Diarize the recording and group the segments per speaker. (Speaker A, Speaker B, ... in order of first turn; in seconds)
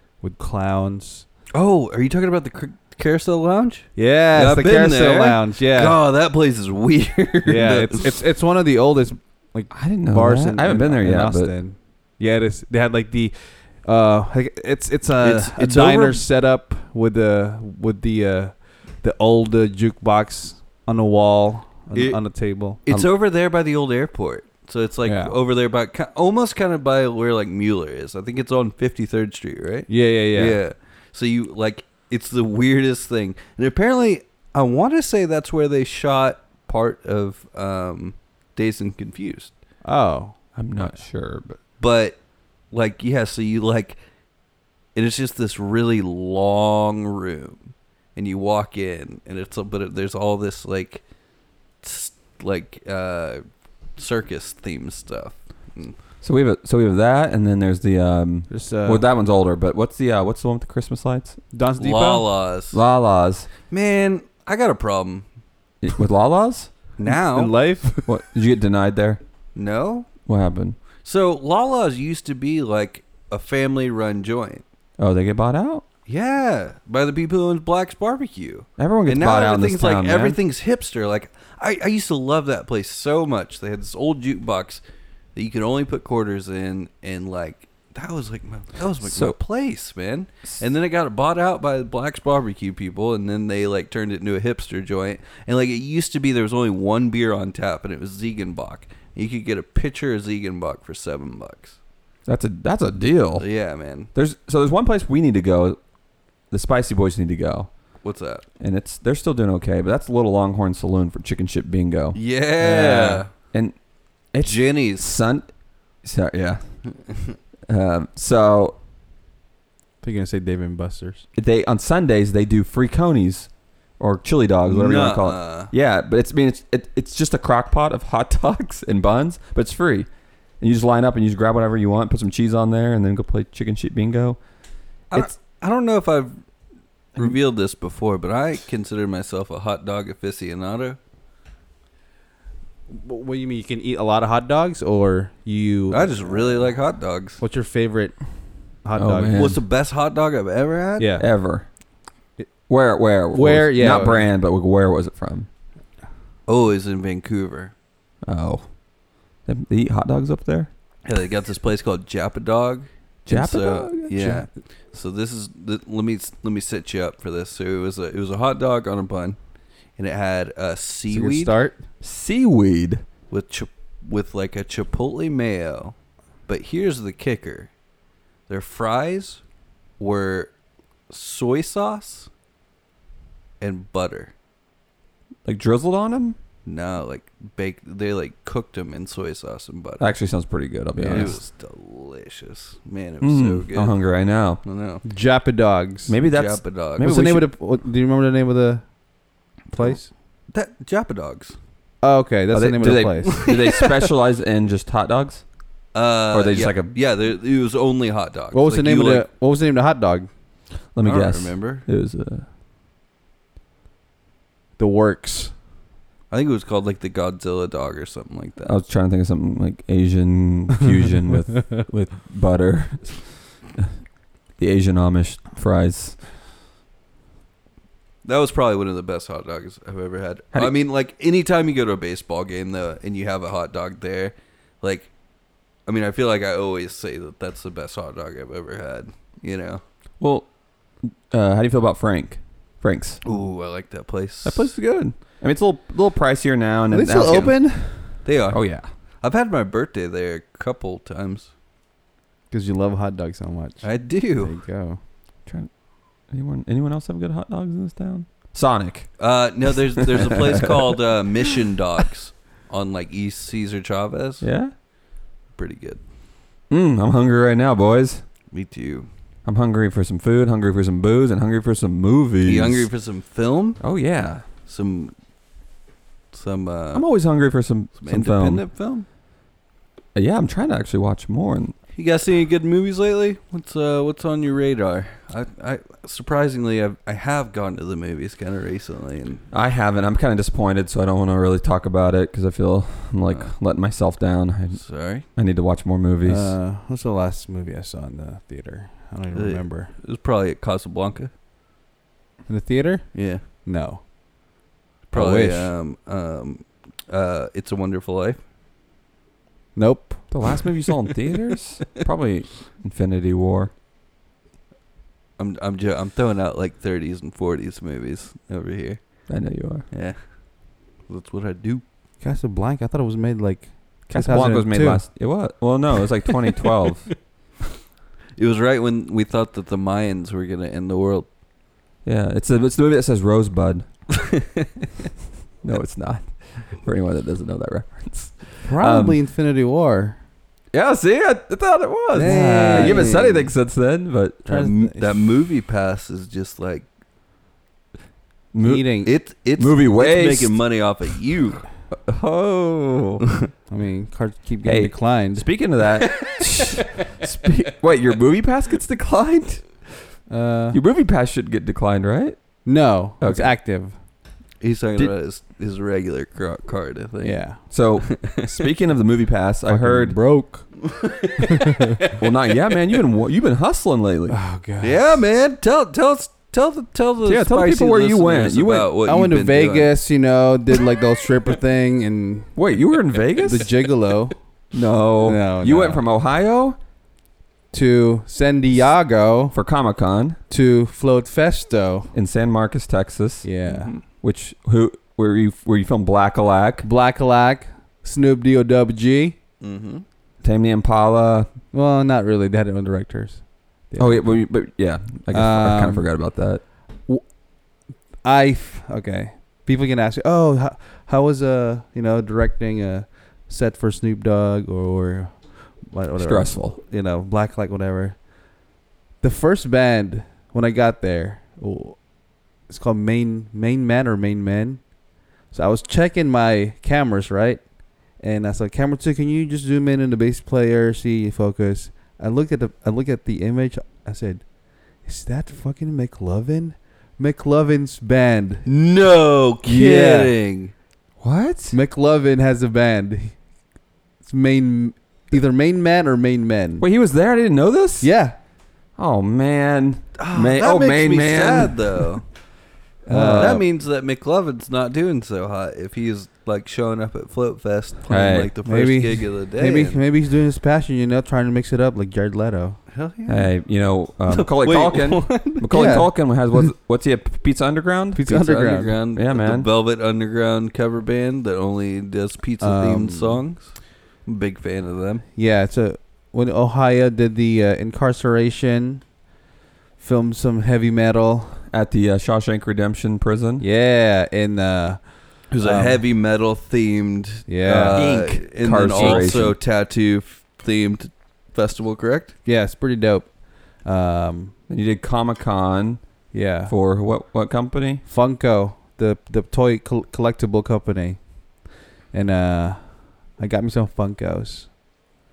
Speaker A: 0.2-1.2, 4.0-6.0, 7.5-22.8, 25.0-25.3, 29.9-30.6, 39.8-40.4, 58.5-59.0, 61.5-62.3, 67.0-68.2, 120.0-121.2, 142.9-146.8, 147.4-148.2, 148.8-149.6, 151.0-151.2, 153.3-154.3, 164.2-164.5, 171.1-171.8, 191.0-191.3, 195.0-196.2, 197.0-198.8, 199.7-200.1, 202.0-203.4, 208.5-210.3, 214.8-215.5, 246.9-248.1, 252.5-255.0, 296.2-299.9, 302.5-304.0, 305.1-305.7, 309.8-310.4, 322.2-325.0, 338.6-340.2, 342.2-343.1, 344.4-345.2, 348.6-349.1, 353.7-355.5, 360.3-360.8, 362.6-364.0, 367.2-367.6, 369.7-370.9, 371.4-372.1, 374.3-375.2, 379.1-382.5, 383.3-384.4, 385.2-386.0, 387.7-389.5, 390.5-392.1, 393.4-393.9, 396.8-399.4, 401.7-404.4, 405.3-406.1, 408.2-418.3, 419.2-422.1, 422.7-424.9, 425.5-438.6, 439.6-440.3, 441.7-443.4, 444.2-446.8, 448.0-448.4, 453.1-453.6, 458.6-462.8, 465.7-466.1, 468.1-468.9, 472.6-473.4, 475.3-479.1, 480.0-481.6, 483.6-486.0, 487.5-488.1, 488.8-489.3, 492.4-494.5, 496.3-496.7, 498.1-501.4, 502.1-504.7
Speaker B: 1.5-8.1, 15.2-16.2, 21.9-22.2, 22.8-39.5, 41.8-42.2, 42.7-44.0, 44.9-51.0, 51.8-53.4, 54.0-55.9, 61.8-62.8, 63.7-65.2, 67.0-67.5, 69.5-70.1, 71.0-74.6, 76.1-84.8, 85.3-101.8, 103.4-104.1, 108.0-108.4, 112.1-113.3, 114.4-115.1, 124.7-125.7, 135.1-136.3, 137.2-141.0, 145.9-147.4, 149.3-151.1, 156.5-157.7, 161.0-169.4, 170.0-171.5, 173.3-175.9, 176.5-177.7, 178.5-179.4, 180.0-180.5, 181.1-182.3, 183.6-184.3, 186.6-190.1, 191.1-194.0, 194.6-195.0, 196.3-197.1, 200.5-201.6, 203.3-204.1, 205.9-209.2, 211.0-211.8, 216.3-218.7, 228.2-235.1, 235.8-239.8, 243.2-244.8, 248.2-251.5, 253.8-254.6, 259.2-264.4, 265.6-266.0, 268.5-269.1, 272.4-273.9, 274.6-275.1, 276.3-277.1, 277.9-279.0, 281.9-289.4, 293.2-293.5, 294.7-295.2, 299.3-301.3, 303.1-303.4, 305.1-308.4, 315.4-319.3, 319.9-321.8, 328.4-331.3, 334.2-334.6, 342.1-343.5, 344.5-346.9, 349.1-351.7, 364.6-368.5, 371.0-371.4, 374.8-379.9, 393.7-394.0, 399.6-400.0, 438.6-440.7, 450.2-452.3, 453.0-460.0, 462.9-463.5, 464.2-465.9, 468.5-475.2, 485.5-492.3
Speaker C: 9.7-11.5, 40.5-41.6, 56.2-61.4, 62.7-63.5, 65.8-66.7, 68.0-69.2, 70.2-70.8, 75.0-75.8, 78.8-80.4, 89.0-89.4, 102.2-103.5, 104.1-105.8, 106.5-107.7, 108.6-113.8, 114.3-115.5, 116.0-116.6, 117.7-118.8, 121.3-130.1, 130.6-134.4, 148.9-149.6, 151.2-151.7, 152.7-155.5, 158.2-158.7, 159.4-160.7, 163.2-164.2, 172.0-173.0, 185.4-186.4, 190.0-191.4, 193.2-194.6, 196.1-197.5, 202.5-205.4, 206.3-206.9, 210.9-212.4, 218.6-223.9, 224.6-226.2, 240.2-240.5, 241.0-243.2, 244.4-247.7, 248.5-248.8, 256.3-259.1, 259.7-260.7, 264.4-264.7, 266.7-268.2, 269.4-272.9, 273.8-274.4, 276.9-278.6, 280.1-281.8, 289.5-296.6, 310.3-313.7, 319.3-319.9, 324.1-327.1, 332.0-333.9, 335.6-339.2, 340.7-344.5, 348.5-349.0, 349.6-350.6, 351.9-353.2, 354.6-359.9, 360.7-362.6, 363.2-363.5, 367.7-370.2, 372.2-374.4, 377.2-378.9, 382.6-383.7, 384.7-386.8, 389.5-390.4, 392.1-393.5, 394.0-396.9, 400.4-401.5, 404.0-406.6, 416.2-416.8, 441.2-441.8, 446.8-448.1, 449.0-452.1, 453.2-453.6, 458.1-458.5, 463.3-469.7, 481.7-483.6, 487.9-489.6, 494.7-496.0, 496.7-498.0